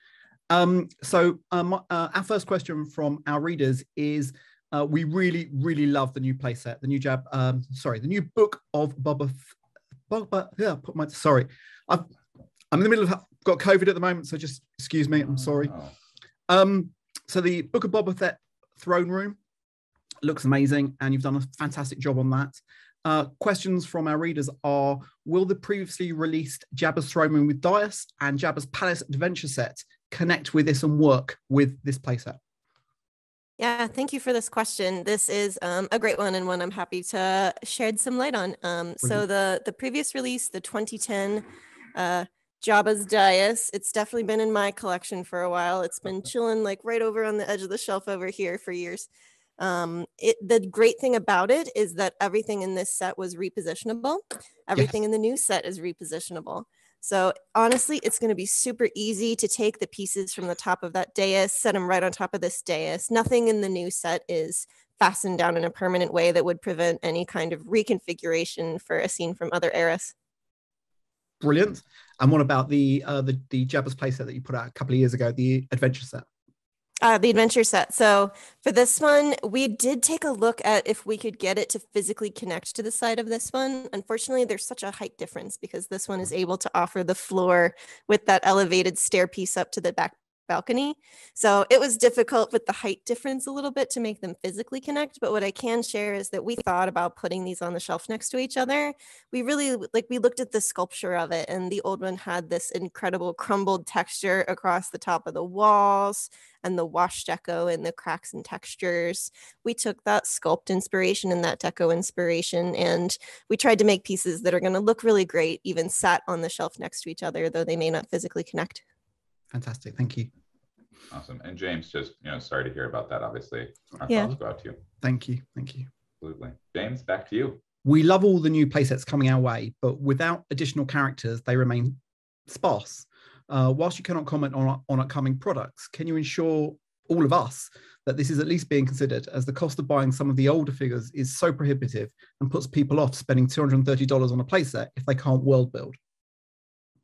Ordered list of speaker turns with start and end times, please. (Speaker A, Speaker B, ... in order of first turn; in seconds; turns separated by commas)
Speaker A: 0.5-9.5, Speaker A: 10.1-12.1, Speaker A: 12.7-15.8, Speaker B: 15.6-15.9, Speaker A: 16.5-19.4, Speaker A: 20.2-32.4, Speaker C: 33.6-70.1, Speaker A: 71.4-76.2, Speaker C: 77.0-118.8, Speaker A: 119.5-120.3, Speaker B: 121.1-124.8, Speaker C: 124.1-124.3, Speaker A: 125.0-125.9, Speaker B: 126.2-127.6, Speaker A: 127.8-146.0